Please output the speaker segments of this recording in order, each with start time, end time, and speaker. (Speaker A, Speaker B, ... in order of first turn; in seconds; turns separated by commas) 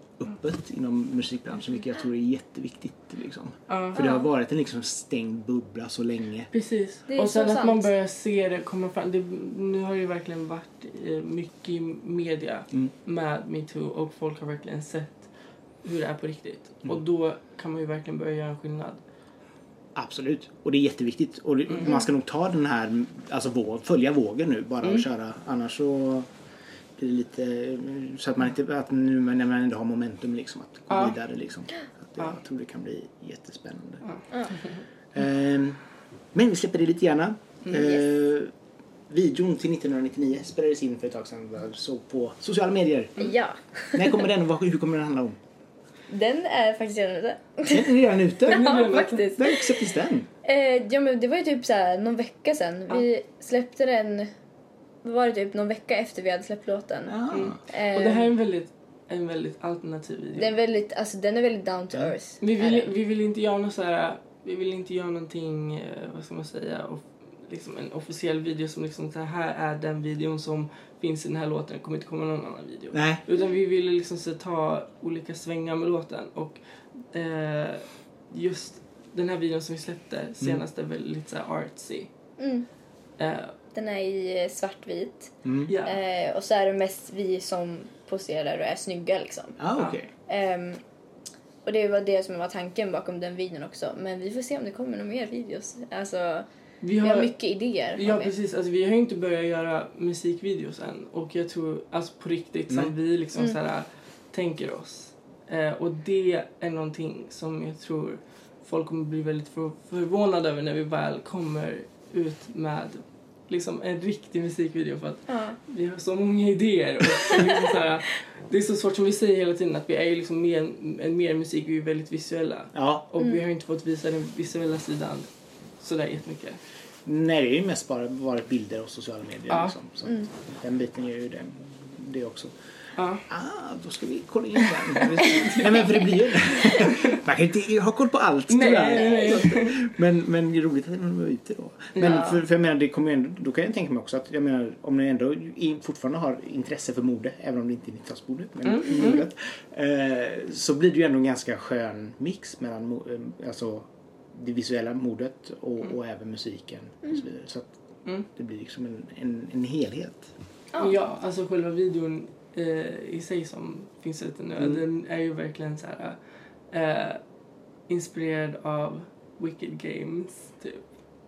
Speaker A: 0.2-6.5, Speaker B: 3.7-4.1, Speaker B: 6.5-15.3, Speaker C: 7.1-7.9, Speaker B: 15.8-19.0, Speaker A: 19.9-26.3, Speaker A: 27.0-34.1, Speaker A: 35.1-35.8, Speaker A: 36.3-38.5, Speaker A: 39.1-43.2, Speaker C: 43.2-44.2, Speaker A: 43.9-45.4, Speaker C: 46.1-49.8, Speaker A: 47.7-48.8, Speaker B: 48.5-49.3, Speaker A: 49.4-50.3, Speaker C: 50.4-54.3, Speaker C: 55.0-58.3, Speaker A: 57.1-57.6, Speaker B: 57.3-60.5, Speaker C: 60.3-62.9, Speaker B: 62.4-76.6, Speaker A: 72.9-73.2, Speaker B: 77.1-82.1, Speaker C: 82.4-82.7, Speaker B: 83.2-83.5, Speaker C: 83.7-89.6, Speaker A: 85.4-85.7, Speaker B: 85.7-86.0, Speaker A: 89.6-90.1, Speaker C: 90.3-90.8, Speaker C: 91.7-96.5, Speaker B: 96.8-97.4, Speaker C: 97.0-98.3, Speaker B: 97.9-125.3, Speaker C: 115.3-115.6, Speaker A: 122.8-123.0, Speaker B: 125.8-126.6, Speaker A: 127.1-132.5, Speaker B: 133.0-133.2, Speaker A: 133.2-160.3, Speaker B: 135.0-136.0, Speaker B: 138.5-139.8, Speaker C: 139.0-139.4, Speaker B: 142.0-142.3, Speaker C: 142.0-142.3, Speaker B: 148.7-149.2, Speaker C: 160.7-161.0, Speaker B: 160.8-166.2, Speaker B: 166.7-167.2, Speaker B: 167.9-170.8